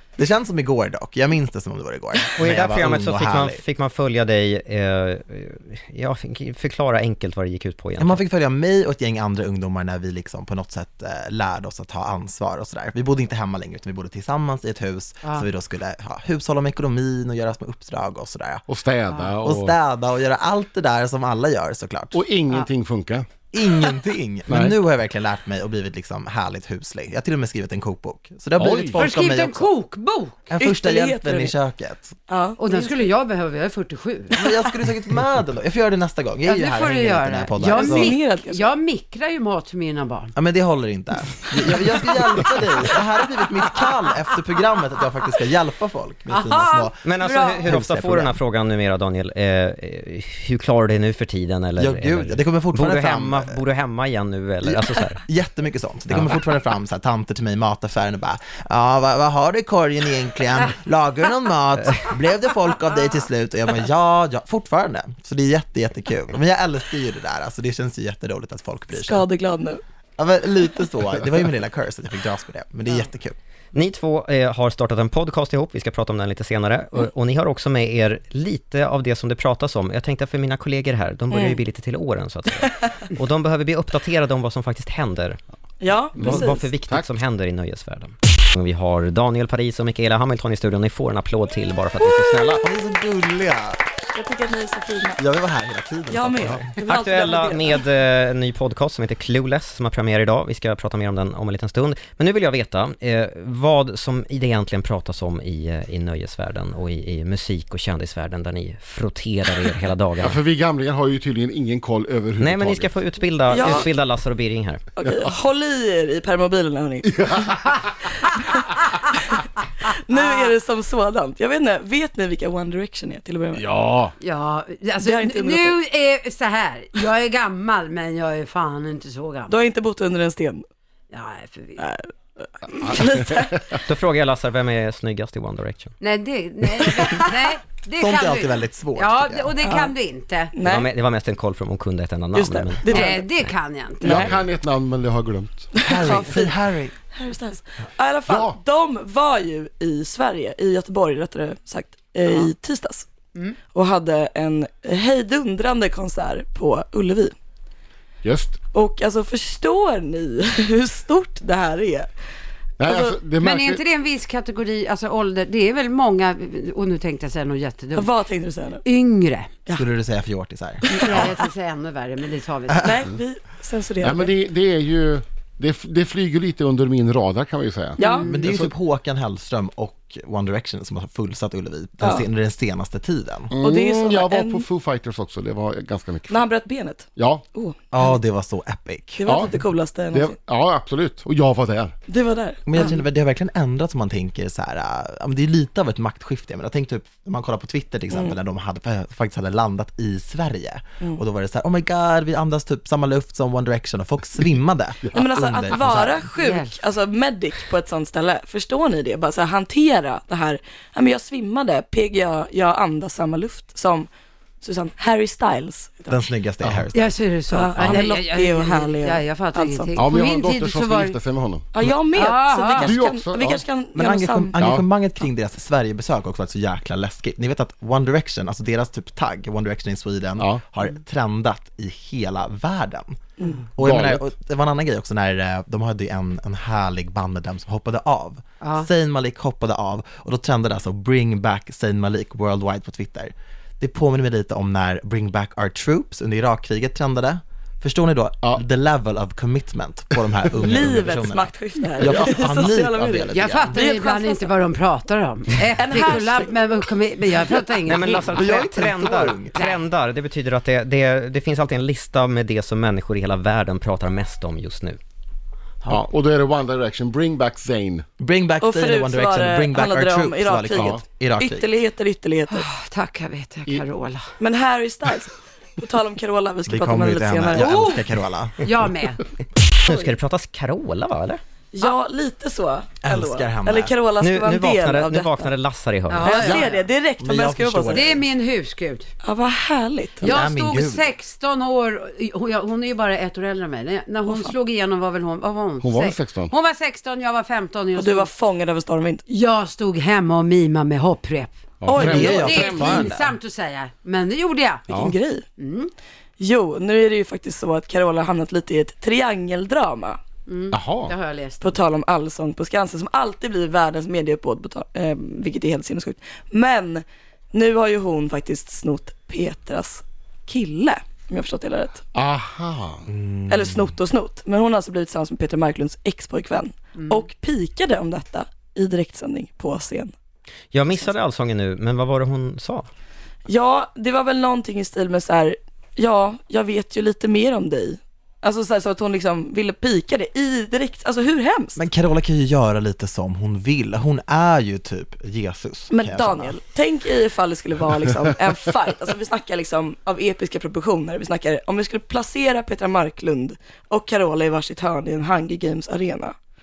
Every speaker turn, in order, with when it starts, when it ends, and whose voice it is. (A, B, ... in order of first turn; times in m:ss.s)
0:00.2-0:03.6 A
0:02.4-0:08.2 B
0:08.0-0:18.6 A
0:18.7-0:19.8 C
0:19.4-0:22.2 A
0:22.1-0:23.3 C
0:23.5-0:29.7 A
0:24.5-0:24.8 C
0:28.6-0:29.0 C
0:28.9-0:30.4 D
0:30.5-0:32.2 A
0:30.6-0:31.5 E
0:32.3-0:32.9 E
0:32.6-0:34.6 D
0:34.3-0:38.1 A
0:36.4-0:40.3 D
0:37.6-0:38.7 E
0:40.4-0:48.4 A
0:46.3-0:46.9 D
0:47.0-0:55.2 B
0:47.2-0:47.6 E
0:51.8-0:53.6 A
0:54.6-1:09.2 A
1:08.9-1:09.8 E
1:10.2-1:13.3 A
1:13.7-1:25.4 B
1:21.3-1:21.6 E
1:25.8-1:26.7 E
1:26.1-1:32.7 B
1:26.2-1:27.1 C
1:32.6-1:33.8 A
1:34.1-1:35.2 E
1:35.2-1:36.7 A
1:36.1-1:37.8 E
1:36.8-1:50.4 B
1:50.2-1:52.9 C
1:52.4-1:54.8 B
1:53.5-1:53.9 E
1:55.0-1:57.5 E
1:55.0-1:55.3 C
1:57.1-1:57.8 C
1:58.5-2:03.6 E
2:00.1-2:00.5 D
2:03.5-2:04.1 C
2:04.2-2:09.6 D
2:05.0-2:05.8 E
2:09.5-2:10.6 E
2:11.1-2:11.8 D
2:11.8-2:13.6 E
2:13.7-2:15.9 B
2:16.0-2:20.5 D
2:18.0-2:19.5 A
2:19.6-2:20.0 E
2:20.5-2:20.9 E
2:20.6-2:23.2 B
2:22.3-2:23.3 E
2:22.9-2:24.3 D
2:24.0-2:25.7 C
2:24.1-2:24.3 B
2:25.8-2:26.6 E
2:25.8-2:26.9 A
2:27.1-2:33.1 E
2:28.2-2:28.6 C
2:33.7-2:37.3 E
2:38.2-2:38.6 C
2:38.7-2:42.1 E
2:42.8-2:43.8 C
2:42.8-2:43.1 E
2:43.4-2:48.1 D
2:47.9-2:48.8 E
2:48.8-2:49.5 D
2:49.7-2:51.4 A
2:50.8-2:51.2 E
2:51.0-2:53.0 D
2:52.7-2:53.0 A
2:52.8-2:54.3 E
2:54.0-2:58.7 C
2:58.0-2:58.3 E
2:58.0-2:58.4 D
2:58.2-3:03.5 A
3:02.0-3:02.3 E
3:03.5-3:06.4 C
3:03.6-3:04.7 E
3:06.3-3:07.8 E
3:07.2-3:07.4 C
3:07.9-3:09.5 A
3:09.2-3:10.4 E
3:09.2-3:09.6 C
3:10.1-3:11.9 C
3:12.1-3:13.0 E
3:12.7-3:26.3 A
3:18.1-3:18.4 E
3:25.1-3:34.1 E
3:26.3-3:26.7 D
3:34.6-3:36.3 E
3:36.1-3:37.1 A
3:36.6-3:36.9 C
3:36.9-3:41.2 D
3:37.5-3:39.9 E
3:39.9-3:43.6 C
3:41.7-3:44.6 E
3:42.1-3:43.0 D
3:43.9-3:53.2 A
3:44.6-3:44.9 C
3:50.4-3:50.6 C
3:53.4-3:53.6 E
3:53.8-4:13.8 A
3:53.8-3:54.2 C
3:58.6-3:58.9 D
4:10.5-4:14.5 E
4:13.3-4:18.4 D
4:15.7-4:16.8 E
4:17.8-4:25.0 B
4:18.3-4:19.6 A
4:19.5-4:19.8 D
4:25.9-4:28.0 C
4:28.2-4:31.7 A
4:28.6-4:32.7 E
4:30.7-4:31.0 C
4:32.5-4:34.3 D
4:34.4-4:37.9 E
4:36.6-4:38.6 A
4:37.5-4:38.0 D
4:38.6-4:39.2 D
4:39.8-4:41.4 B
4:39.9-4:40.1 E
4:41.7-4:45.5 E
4:43.0-4:43.9 A
4:44.2-4:46.7 B
4:46.1-4:46.8 D
4:46.2-4:48.1 E
4:47.2-4:48.2 A
4:47.9-4:49.1 D
4:49.2-4:50.3 E
4:50.2-4:51.1 A
4:50.2-4:58.3 D
4:54.2-4:54.5 E
4:55.8-4:56.5 C
4:57.9-4:59.2 E
4:59.3-5:04.9 D
5:01.8-5:02.5 C
5:01.9-5:03.1 E
5:01.9-5:03.4 A
5:04.9-5:05.2 C
5:04.9-5:05.4 E
5:05.6-5:05.9 D
5:06.4-5:10.2 E
5:10.5-5:11.7 D
5:10.7-5:11.1 C
5:11.6-5:22.0 E
5:22.1-5:23.1 C
5:23.1-5:23.9 A
5:23.5-5:30.1 E
5:27.0-5:27.2 D
5:30.7-5:32.9 B
5:33.4-5:41.8 E
5:41.8-5:46.6 A
5:45.9-5:56.3 E